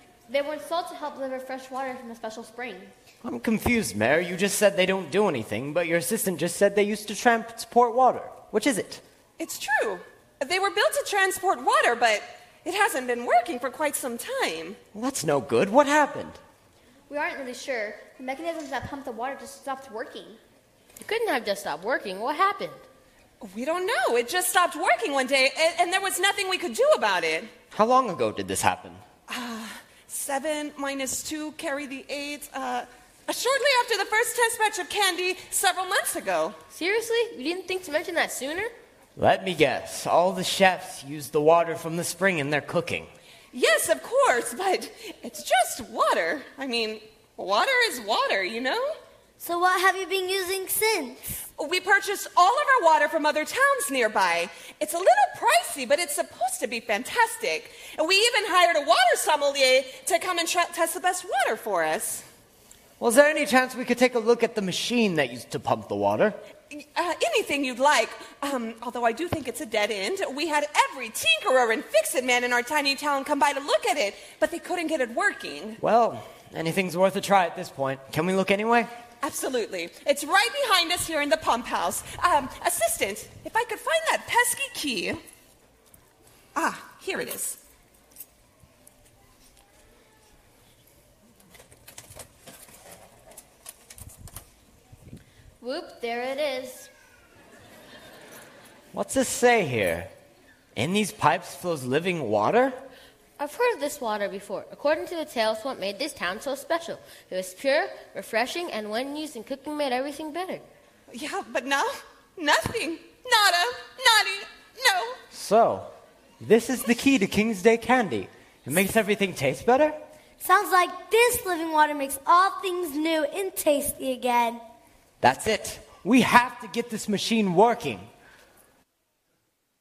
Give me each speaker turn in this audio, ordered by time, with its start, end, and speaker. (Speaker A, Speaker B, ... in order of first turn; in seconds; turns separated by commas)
Speaker A: 0.3-2.9, Speaker B: 3.2-9.0, Speaker C: 9.4-14.8, Speaker B: 14.9-16.4, Speaker A: 17.1-20.4, Speaker D: 21.0-22.8, Speaker C: 23.4-27.5, Speaker B: 27.7-29.0, Speaker C: 29.3-36.6, Speaker D: 36.7-38.7, Speaker B: 39.2-43.1, Speaker C: 43.5-49.0, Speaker E: 49.4-51.4, Speaker C: 51.6-62.2, Speaker B: 63.0-66.4, Speaker C: 66.7-75.8, Speaker B: 75.8-78.9, Speaker C: 79.2-85.2, Speaker C: 86.5-87.6, Speaker A: 95.6-96.9, Speaker B: 98.9-100.1, Speaker B: 100.8-102.8, Speaker D: 103.4-110.6, Speaker C: 111.1-115.2, Speaker B: 115.3-115.9, Speaker B: 116.4-120.0, Speaker E: 120.4-124.6, Speaker B: 125.2-128.1